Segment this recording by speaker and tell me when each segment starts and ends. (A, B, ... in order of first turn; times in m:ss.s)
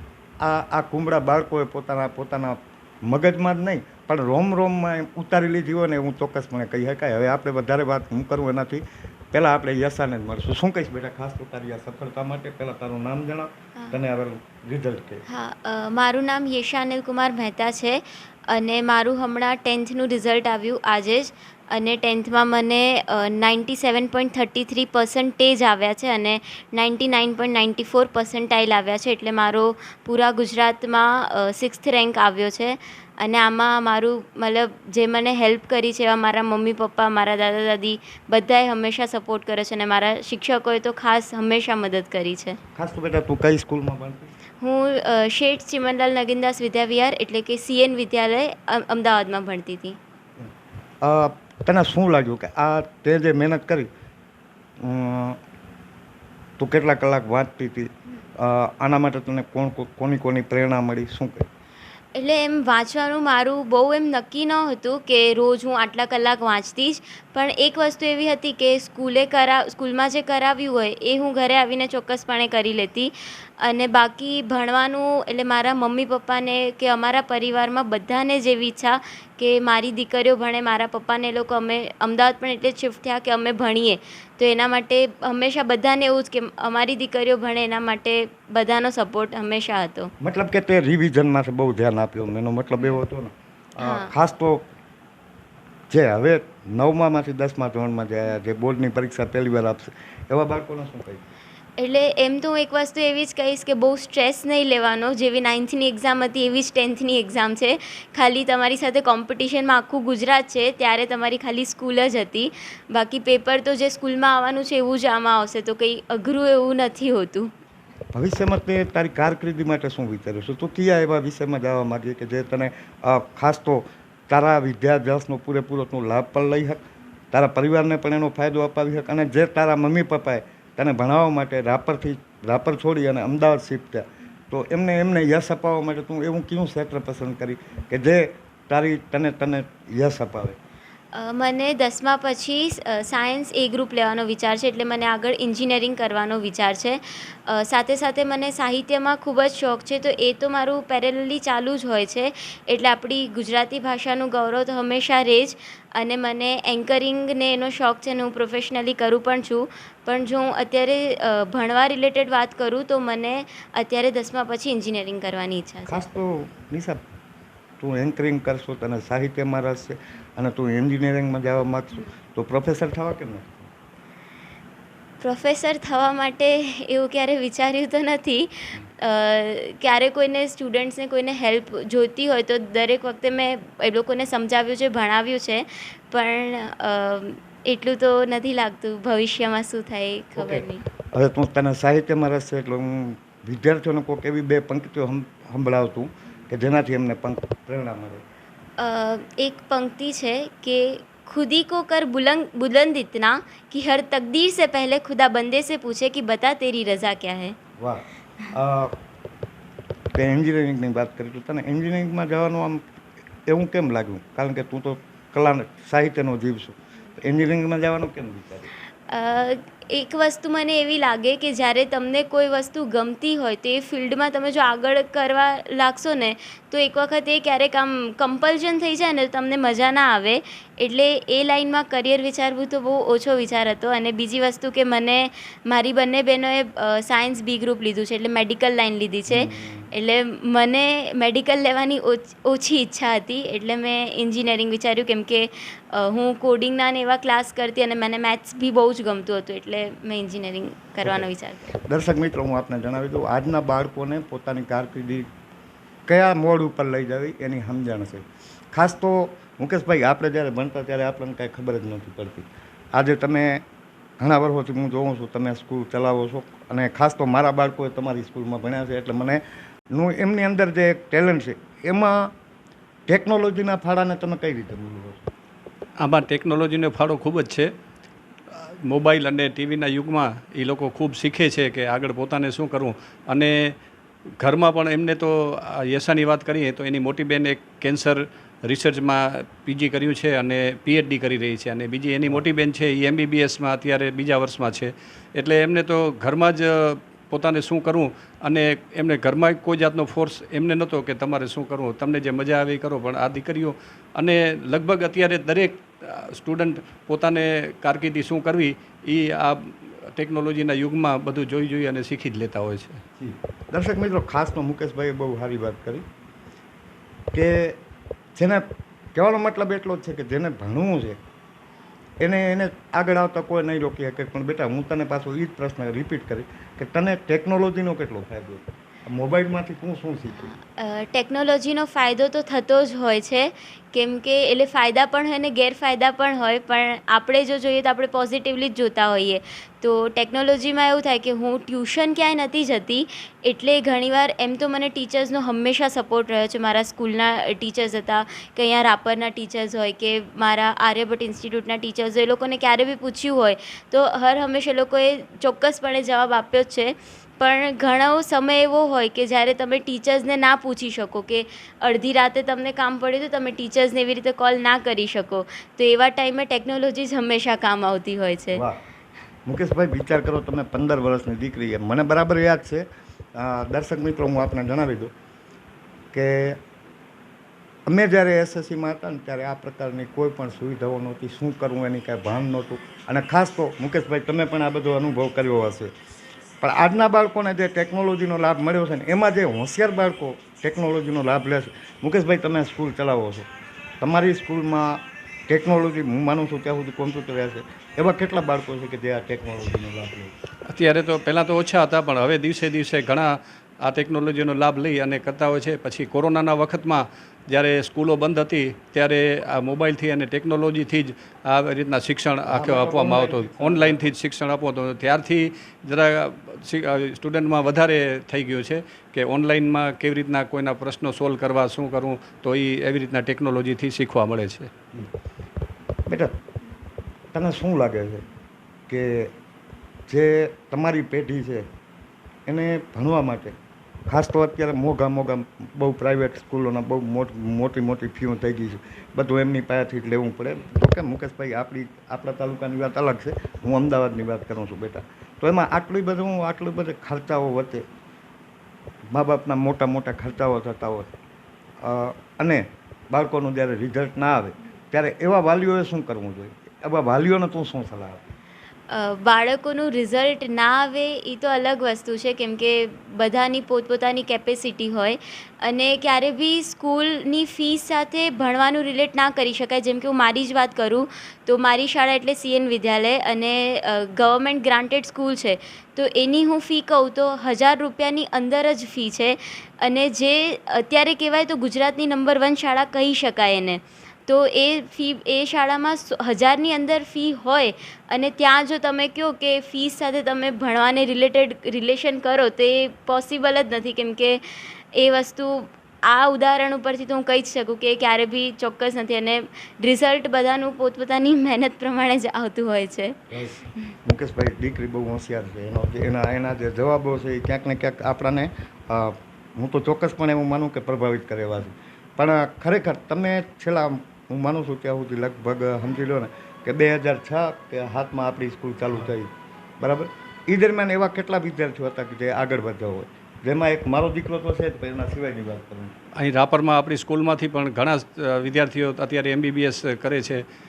0:00.4-0:15.2 A
0:15.3-0:42.6 B
0:42.8-0:44.3 A
0:44.6-0:50.0 B
0:51.0-0:53.9 A
0:54.8-0:55.4 A
0:56.6-1:01.5 A
1:02.2-1:30.1 B
1:30.2-1:34.7 A
1:33.8-1:34.1 B
1:35.9-1:41.3 A
1:41.8-1:57.5 B
1:58.1-2:06.8 A
2:07.3-2:20.6 A
2:21.1-2:46.0 B
2:45.9-2:47.0 A
2:47.8-2:53.7 A
2:55.2-3:10.8 B
3:10.4-3:18.2 A
3:18.8-3:27.6 B
3:27.8-3:29.0 A
3:30.1-3:32.8 A
3:33.5-3:38.7 A
3:39.1-4:11.8 B
3:59.3-3:59.9 A
4:11.0-4:15.3 A
4:16.1-4:23.6 A
4:24.2-4:32.3 A
4:33.1-4:35.3 A
4:36.0-4:37.7 C
4:38.5-4:43.8 C
4:44.4-5:13.0 C
5:13.2-5:16.0 A
5:17.3-5:17.8 A
5:18.4-5:21.2 A
5:22.2-5:30.5 A
5:30.3-6:08.6 B
6:08.5-6:08.8 A
6:09.5-6:15.1 A
6:16.1-6:16.6 A
6:17.9-6:25.9 A
6:26.6-6:33.5 A
6:34.0-6:40.3 A
6:40.7-7:04.7 C
6:52.5-6:54.2 A
7:06.1-7:06.3 A
7:07.3-7:08.2 A
7:08.9-7:09.3 A
7:10.1-7:11.7 A
7:12.5-7:13.6 A
7:14.1-7:27.8 A
7:29.1-7:31.1 A
7:31.8-7:38.2 A
7:38.9-8:23.2 B
8:23.3-8:45.9 A
8:46.2-8:50.4 C